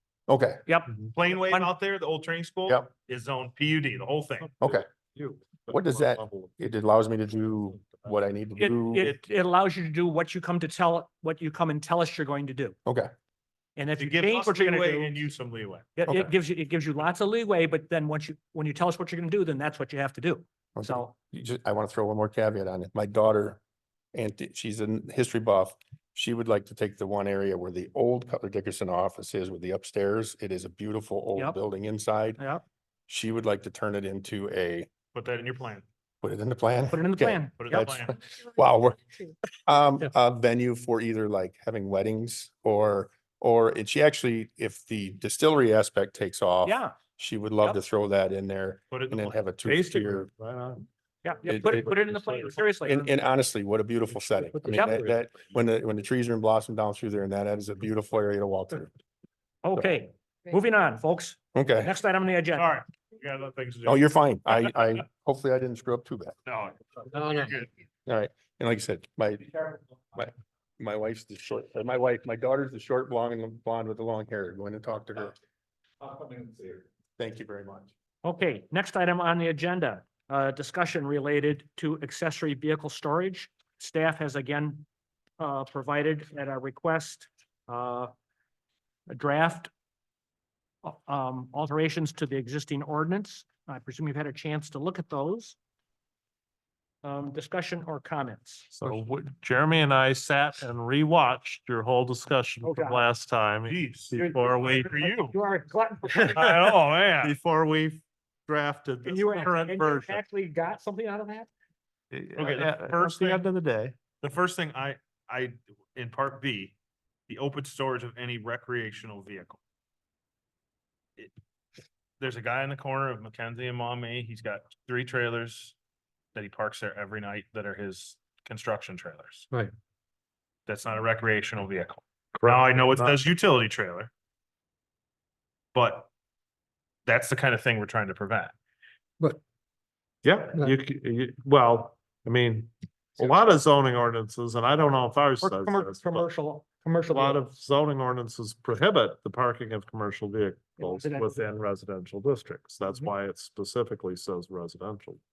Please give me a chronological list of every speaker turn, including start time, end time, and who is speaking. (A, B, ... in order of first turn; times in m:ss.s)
0:00.3-0:00.6 A
0:00.6-0:01.7 B
0:01.1-0:04.5 C
0:04.4-0:06.7 D
0:04.6-0:04.9 A
0:05.7-0:09.1 A
0:07.4-0:08.2 D
0:08.6-0:12.8 B
0:12.8-0:13.1 A
0:13.8-0:15.2 B
0:14.0-0:16.0 C
0:16.0-0:21.1 B
0:20.8-0:23.6 A
0:24.1-0:32.4 A
0:32.4-0:32.6 B
0:33.1-0:34.9 A
0:35.1-0:35.8 C
0:36.2-0:50.3 A
0:36.9-0:38.0 B
0:37.6-0:38.2 C
0:46.6-0:47.0 B
0:48.9-0:49.4 C
0:49.6-0:50.8 D
0:51.2-0:53.1 B
0:51.4-0:52.0 A
0:51.5-0:52.6 D
0:52.8-0:58.9 A
0:54.2-0:55.3 D
0:54.7-0:55.0 B
0:59.6-1:02.7 B
1:01.5-1:01.9 A
1:02.6-1:04.1 C
1:03.8-1:06.4 A
1:06.4-1:07.7 C
1:08.0-1:15.3 A
1:17.2-1:17.9 A
1:18.2-1:24.8 B
1:25.4-1:28.1 B
1:29.1-1:29.7 B
1:30.8-1:35.6 B
1:37.0-1:39.0 B
1:38.7-1:45.3 D
1:42.6-1:43.0 B
1:43.7-1:44.3 C
1:44.2-1:46.5 B
1:46.1-1:50.2 D
1:46.3-1:47.4 C
1:49.0-1:51.5 B
1:52.1-1:54.0 D
1:52.4-1:53.4 C
1:54.2-1:56.7 C
1:57.3-1:59.6 C
2:02.2-2:05.8 C
2:06.3-2:09.5 C
2:10.7-2:14.1 C
2:12.4-2:13.1 D
2:15.7-2:16.1 C
2:17.0-2:18.5 C
2:20.2-2:26.3 D
2:25.4-2:27.4 B
2:27.1-2:35.2 D
2:30.8-2:31.4 B